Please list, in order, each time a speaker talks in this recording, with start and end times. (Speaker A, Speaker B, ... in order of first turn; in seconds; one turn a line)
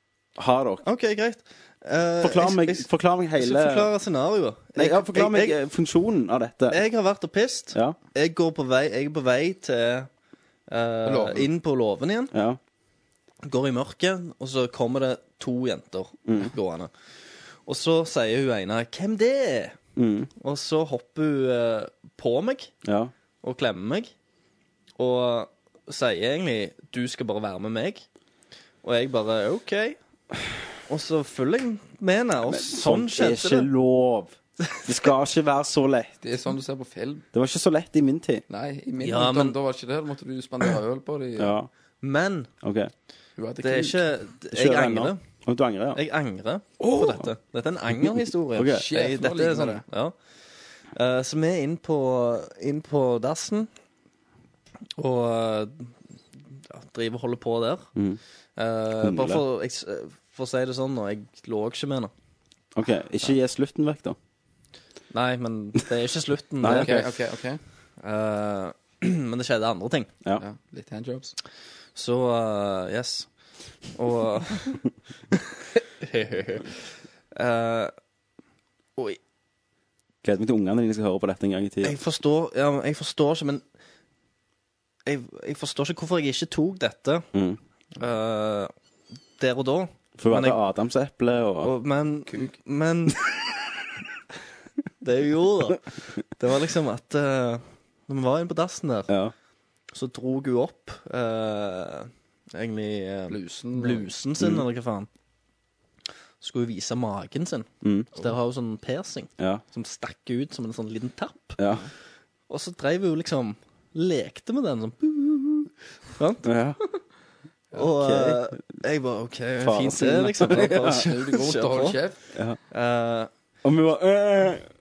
Speaker A: 0.3-0.8
Speaker B: 0.8-2.9
Speaker A: 2.2-3.9
Speaker B: 3.4-5.5
Speaker A: 4.8-6.8
Speaker B: 6.7-10.1
Speaker B: 10.7-12.3
Speaker C: 11.0-11.4
Speaker A: 12.3-12.6
Speaker B: 13.4-16.9
Speaker A: 16.3-16.5
Speaker B: 17.6-19.8
Speaker A: 19.9-20.3
Speaker B: 20.4-22.7
Speaker A: 22.8-23.1
Speaker B: 23.4-24.1
Speaker B: 25.0-28.0
Speaker B: 28.8-30.0
Speaker B: 30.9-33.7
Speaker A: 32.4-36.1
Speaker C: 36.2-37.2
Speaker A: 37.3-38.4
Speaker C: 38.5-41.5
Speaker B: 39.0-39.6
Speaker A: 41.4-41.7
Speaker B: 42.0-42.5
Speaker A: 42.6-42.9
Speaker C: 43.4-44.0
Speaker B: 43.6-45.2
Speaker A: 44.5-46.0
Speaker B: 45.9-50.1
Speaker A: 47.0-47.2
Speaker A: 47.9-48.9
Speaker C: 48.7-49.8
Speaker B: 50.9-53.7
Speaker B: 55.0-55.9
Speaker B: 56.7-57.9
Speaker B: 58.6-62.1
Speaker A: 59.0-59.4
Speaker A: 62.7-64.2
Speaker B: 65.1-67.1
Speaker A: 66.6-67.1
Speaker C: 66.7-67.6
Speaker B: 68.0-70.1
Speaker C: 70.4-71.3
Speaker B: 72.0-73.3
Speaker B: 73.9-77.9
Speaker A: 80.2-82.0
Speaker B: 81.8-83.6
Speaker B: 85.0-87.3
Speaker A: 87.3-87.6
Speaker B: 88.0-88.7
Speaker B: 89.4-90.6
Speaker A: 90.2-91.7
Speaker B: 91.6-93.2
Speaker B: 95.0-95.9
Speaker B: 96.4-99.1
Speaker A: 99.1-99.3
Speaker B: 99.9-105.1
Speaker C: 103.3-104.1
Speaker A: 104.4-104.6
Speaker B: 106.4-111.6
Speaker A: 107.8-108.1
Speaker A: 111.6-111.8
Speaker B: 112.5-116.5
Speaker A: 116.4-116.8
Speaker B: 117.7-122.0
Speaker A: 117.8-118.5
Speaker A: 119.6-121.0
Speaker C: 121.0-122.2
Speaker B: 122.7-123.3
Speaker A: 123.6-124.7